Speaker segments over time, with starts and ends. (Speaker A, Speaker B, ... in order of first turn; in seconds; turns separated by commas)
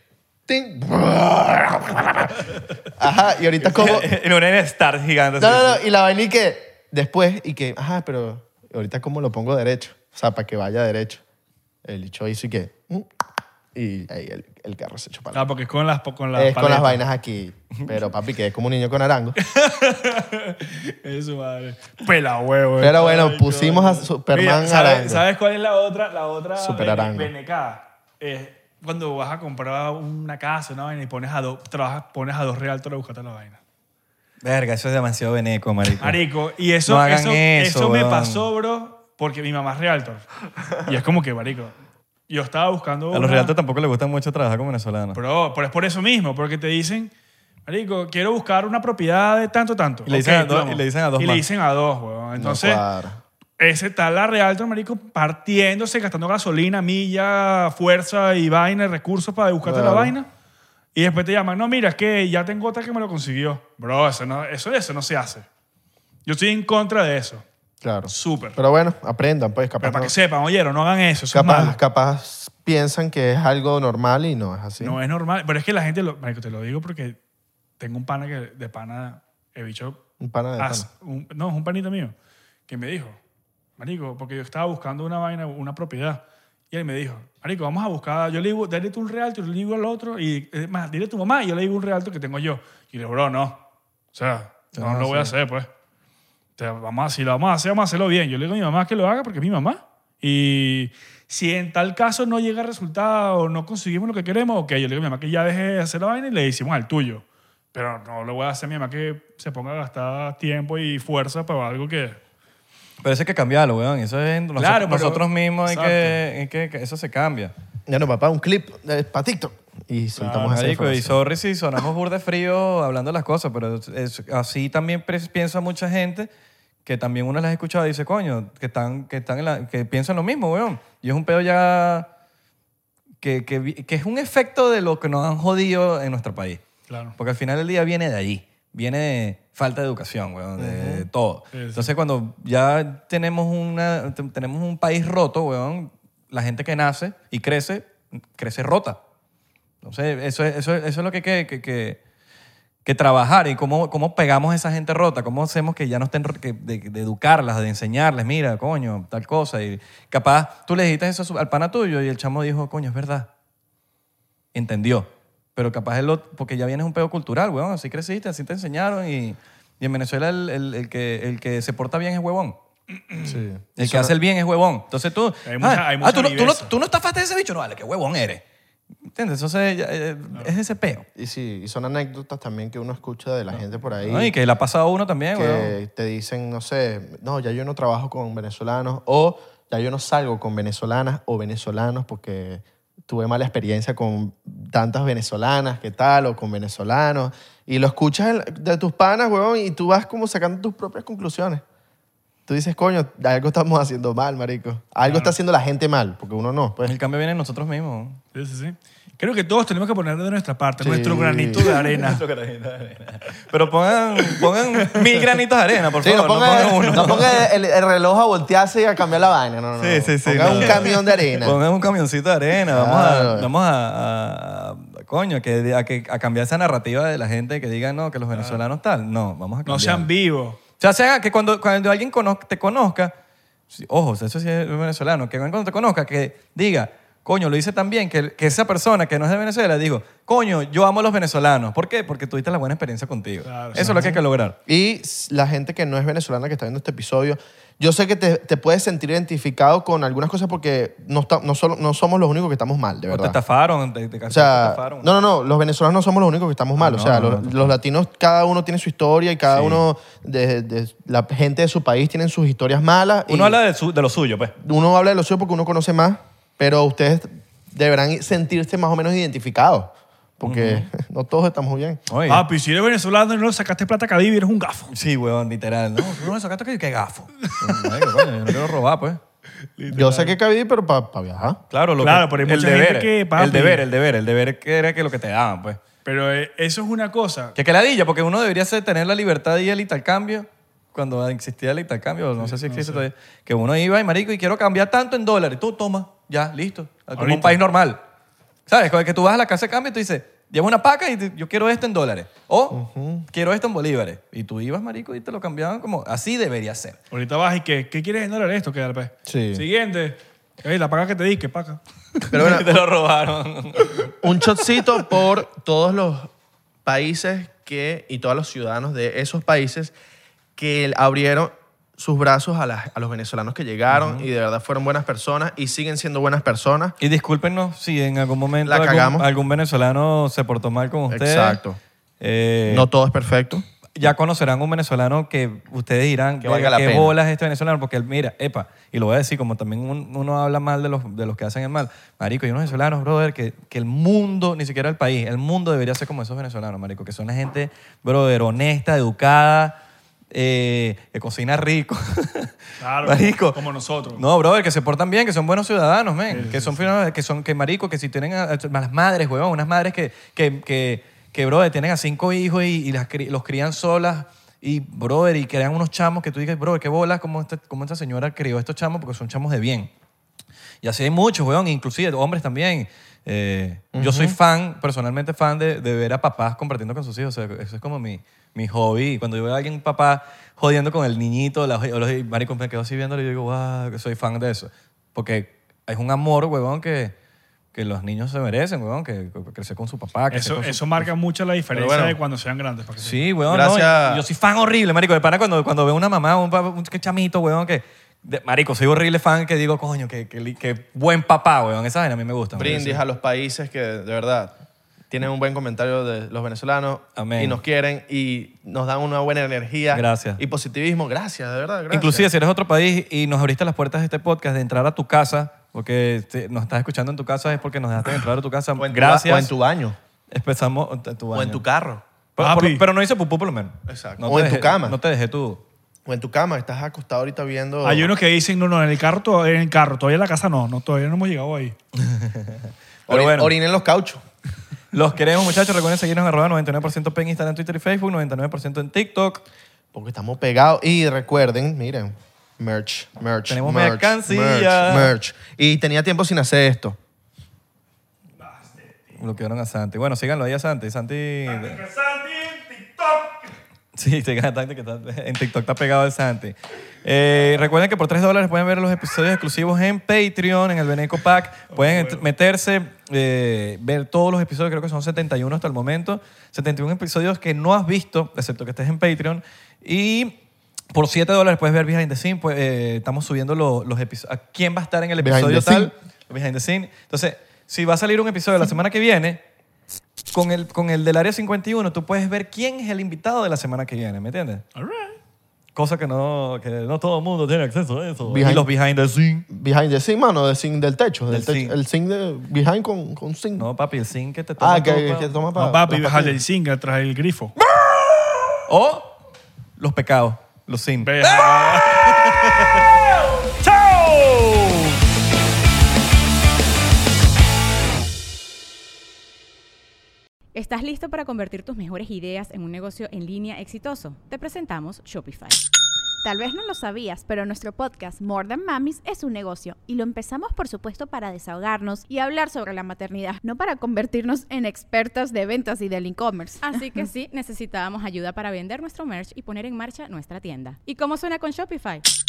Speaker A: 0.5-4.1, Speaker B: 3.6-5.8, Speaker A: 5.4-11.2, Speaker A: 11.8-13.1, Speaker A: 13.7-15.5, Speaker C: 15.3-17.0, Speaker A: 16.3-19.4, Speaker C: 19.4-33.6, Speaker A: 22.8-25.2, Speaker A: 26.6-27.3, Speaker B: 34.4-36.2, Speaker C: 36.0-41.7, Speaker B: 36.9-38.5, Speaker C: 42.3-43.5, Speaker B: 43.1-45.2, Speaker C: 45.1-47.1, Speaker C: 47.6-52.8, Speaker B: 50.1-51.4, Speaker A: 52.4-53.2, Speaker C: 53.6-60.3, Speaker A: 59.6-60.1, Speaker C: 60.9-65.5, Speaker C: 66.2-67.4, Speaker A: 67.8-70.1, Speaker C: 68.1-68.6, Speaker C: 69.8-71.8, Speaker A: 71.3-75.0, Speaker C: 74.8-77.2, Speaker C: 77.8-80.0, Speaker A: 80.2-80.9, Speaker C: 80.6-82.1, Speaker C: 82.7-83.2, Speaker C: 83.8-93.6, Speaker C: 94.1-95.7, Speaker B: 94.7-95.3, Speaker C: 96.6-112.2, Speaker B: 113.0-117.5, Speaker C: 114.6-116.2, Speaker A: 117.9-121.2, Speaker C: 120.2-120.5, Speaker B: 120.5-126.3, Speaker B: 126.8-132.1, Speaker B: 133.2-136.6, Speaker C: 136.9-137.1, Speaker B: 137.2-149.0, Speaker A: 140.6-141.1, Speaker C: 141.5-141.9, Speaker B: 149.8-152.0, Speaker B: 152.8-163.3, Speaker B: 164.5-172.6, Speaker C: 173.1-173.4, Speaker A: 173.2-174.1, Speaker B: 173.8-178.4, Speaker C: 175.4-176.7, Speaker B: 179.1-181.1, Speaker A: 181.2-184.3, Speaker B: 184.0-185.7, Speaker A: 185.3-201.6, Speaker A: 202.5-206.9, Speaker C: 205.0-205.3, Speaker B: 206.8-208.2, Speaker C: 208.3-212.2, Speaker A: 210.8-211.8, Speaker B: 211.9-217.4, Speaker A: 216.0-221.6, Speaker C: 216.9-217.2, Speaker B: 219.8-230.1, Speaker C: 220.7-220.9, Speaker A: 222.7-223.5, Speaker C: 228.3-228.6, Speaker C: 229.7-230.6, Speaker B: 230.8-233.1, Speaker B: 233.7-244.6, Speaker C: 243.4-244.2, Speaker A: 244.7-253.4, Speaker B: 253.1-255.1, Speaker A: 254.3-263.6, Speaker B: 256.8-257.8, Speaker B: 259.5-259.8, Speaker B: 263.3-264.5, Speaker A: 264.6-272.0, Speaker B: 270.4-270.9, Speaker B: 272.1-272.4, Speaker C: 272.3-274.9, Speaker B: 274.9-279.2, Speaker C: 277.5-277.9, Speaker C: 279.8-280.4, Speaker A: 279.9-281.6, Speaker B: 281.7-285.8, Speaker C: 282.0-283.8, Speaker C: 286.0-287.6, Speaker B: 287.6-298.0, Speaker C: 292.4-293.0, Speaker C: 297.1-297.6, Speaker B: 298.7-307.0, Speaker A: 302.7-303.3, Speaker C: 307.1-311.8, Speaker A: 309.3-309.6, Speaker A: 312.3-312.8, Speaker B: 312.3-313.9, Speaker A: 314.2-316.3, Speaker A: 316.8-319.9, Speaker A: 320.6-326.9, Speaker B: 323.9-324.2, Speaker B: 327.0-331.6, Speaker A: 328.6-329.2, Speaker A: 331.1-331.8, Speaker B: 332.2-332.9, Speaker A: 332.7-333.6, Speaker B: 333.9-349.8, Speaker A: 336.4-337.1, Speaker B: 350.3-353.6, Speaker C: 352.8-354.2, Speaker B: 354.1-369.9, Speaker C: 356.3-356.9, Speaker B: 370.8-387.1, Speaker A: 373.9-374.4, Speaker B: 387.7-391.0, Speaker C: 390.3-393.3, Speaker A: 391.7-392.2, Speaker B: 393.0-402.9, Speaker A: 393.5-394.2, Speaker A: 402.5-404.6, Speaker C: 402.6-402.9, Speaker A: 405.1-412.3, Speaker B: 407.1-407.6, Speaker B: 409.9-410.4, Speaker B: 411.9-419.5, Speaker A: 418.8-420.0, Speaker B: 420.3-421.6, Speaker A: 421.3-422.0, Speaker B: 422.4-425.6, Speaker C: 422.4-422.9, Speaker A: 423.9-425.0, Speaker A: 426.1-428.1, Speaker C: 427.8-431.8, Speaker B: 431.9-433.5, Speaker A: 433.1-434.2, Speaker B: 434.9-439.4, Speaker A: 439.9-447.0, Speaker B: 443.5-445.1, Speaker C: 448.4-449.2, Speaker B: 449.2-451.8, Speaker C: 451.4-453.5, Speaker B: 453.9-470.4, Speaker C: 461.7-462.2, Speaker B: 470.9-479.4, Speaker A: 475.2-475.9, Speaker B: 480.3-484.6, Speaker C: 484.7-485.2, Speaker B: 485.8-489.4, Speaker A: 488.2-488.7, Speaker A: 489.5-493.7, Speaker B: 491.3-491.8, Speaker B: 493.6-495.4, Speaker A: 494.6-496.4, Speaker C: 495.5-497.6, Speaker B: 498.6-499.1, Speaker B: 499.8-502.6, Speaker C: 501.0-504.9, Speaker D: 510.5-515.6, Speaker E: 516.2-526.8, Speaker D: 526.6-532.0